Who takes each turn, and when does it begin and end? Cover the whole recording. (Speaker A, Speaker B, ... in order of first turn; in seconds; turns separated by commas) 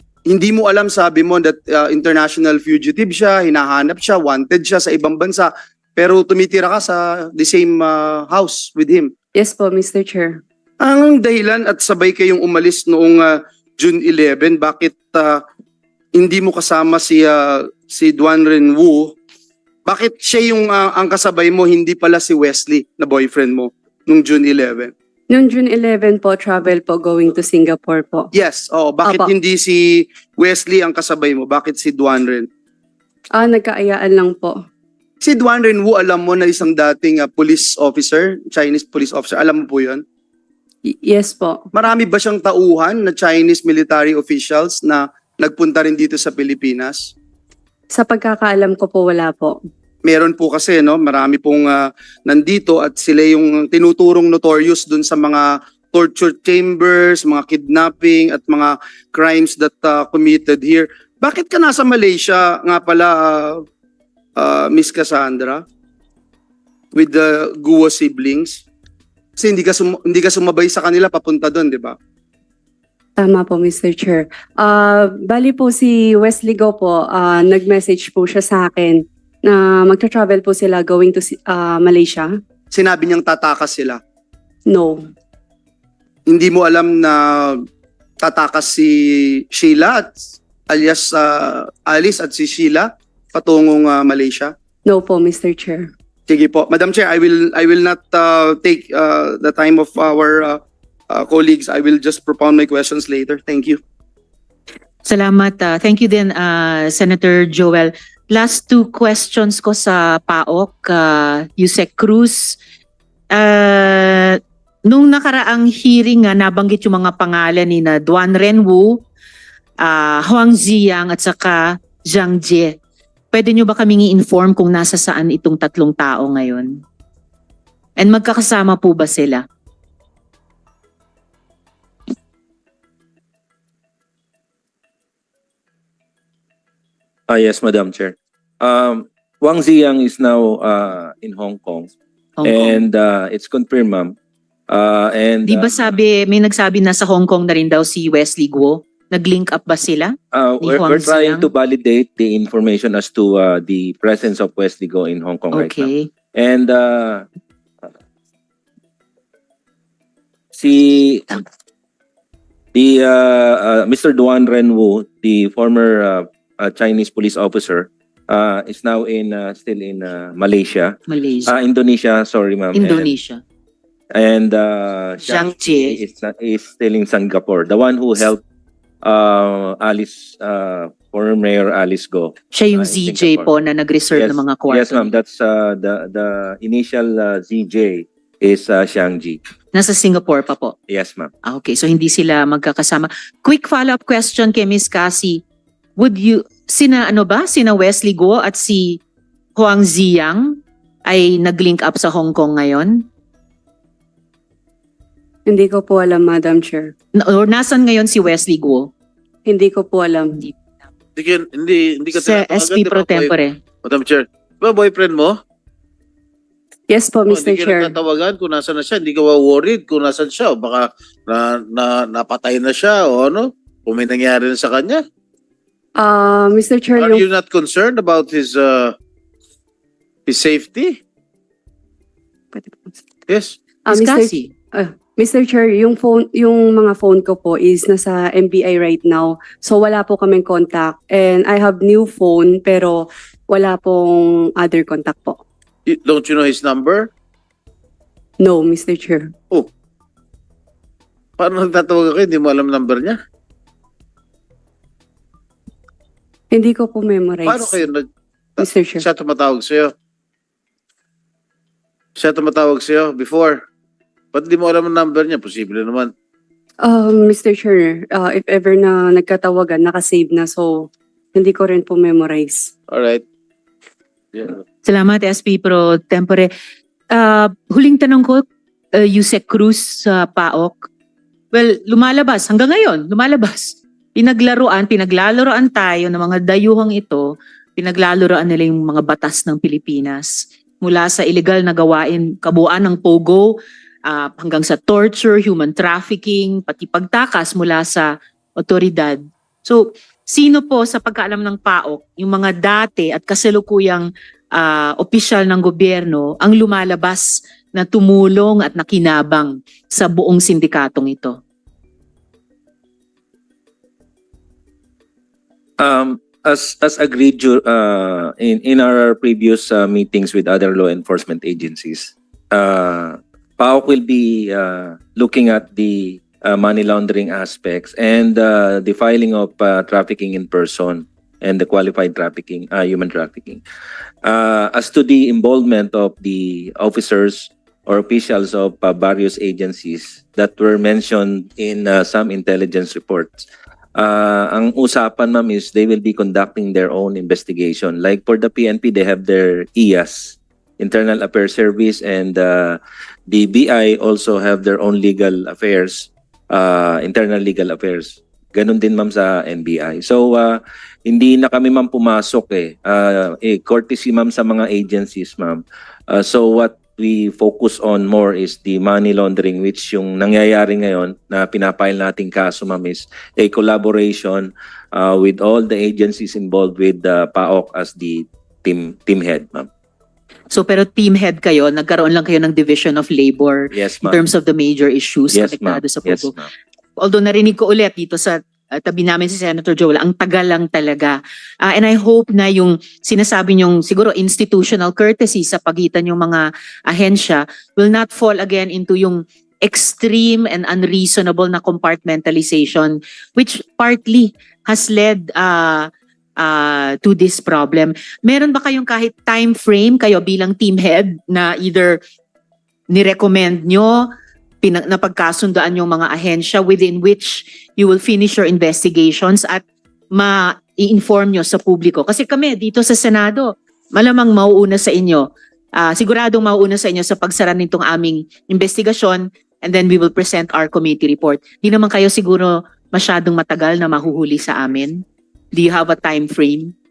Speaker A: 0.3-9.1, Speaker B: 9.3-10.4, Speaker A: 10.8-15.4, Speaker A: 16.1-19.1, Speaker A: 19.9-24.9, Speaker B: 25.3-28.3, Speaker A: 28.3-32.5, Speaker B: 29.0-29.3, Speaker B: 33.3-34.6, Speaker A: 35.2-40.0, Speaker B: 40.9-41.6, Speaker A: 41.7-47.1, Speaker B: 47.9-49.6, Speaker A: 50.0-63.6, Speaker A: 64.4-65.6, Speaker A: 66.9-68.6, Speaker A: 69.4-72.0, Speaker B: 73.2-82.3, Speaker A: 82.7-84.0, Speaker B: 84.7-85.0, Speaker A: 86.3-87.6, Speaker A: 88.2-88.9, Speaker A: 89.5-90.2, Speaker A: 90.7-94.5, Speaker B: 94.9-95.9, Speaker A: 96.3-103.8, Speaker C: 105.0-112.6, Speaker C: 113.3-119.0, Speaker C: 119.8-122.8, Speaker C: 123.3-126.8, Speaker C: 128.0-129.4, Speaker D: 137.3-141.9, Speaker C: 142.4-142.8, Speaker D: 142.4-144.2, Speaker D: 144.7-146.0, Speaker C: 145.5-151.5, Speaker D: 150.3-157.2, Speaker C: 155.5-156.1, Speaker D: 160.5-161.4, Speaker D: 162.7-173.1, Speaker C: 171.1-171.5, Speaker C: 172.7-173.4, Speaker D: 174.1-178.4, Speaker C: 175.3-176.0, Speaker D: 179.0-183.5, Speaker C: 182.5-185.1, Speaker D: 184.1-189.4, Speaker C: 189.7-190.8, Speaker D: 190.9-191.3, Speaker C: 191.4-195.4, Speaker C: 196.0-199.0, Speaker C: 199.6-203.1, Speaker B: 205.5-206.9, Speaker C: 207.2-208.9, Speaker B: 209.5-210.4, Speaker E: 211.2-213.3, Speaker C: 212.1-213.6, Speaker E: 213.8-215.4, Speaker B: 216.9-217.9, Speaker E: 217.3-225.0, Speaker B: 226.0-227.2, Speaker E: 227.0-228.9, Speaker E: 230.3-231.0, Speaker B: 232.5-232.9, Speaker E: 233.3-233.6, Speaker B: 233.9-245.4, Speaker C: 233.9-234.5, Speaker E: 245.9-247.1, Speaker B: 248.4-249.3, Speaker E: 251.4-253.2, Speaker B: 256.5-257.8, Speaker E: 257.5-258.1, Speaker E: 258.6-259.9, Speaker B: 258.6-259.1, Speaker E: 262.2-263.6, Speaker E: 264.3-266.1, Speaker B: 266.8-272.7, Speaker E: 272.9-273.2, Speaker C: 274.9-276.5, Speaker C: 277.1-280.9, Speaker C: 281.5-311.4, Speaker D: 315.8-333.6, Speaker D: 334.2-379.7, Speaker C: 380.5-386.3, Speaker D: 383.7-384.2, Speaker D: 385.3-386.5, Speaker C: 387.0-405.9, Speaker C: 406.4-412.0, Speaker C: 412.9-414.1, Speaker C: 414.6-425.3, Speaker C: 425.8-436.7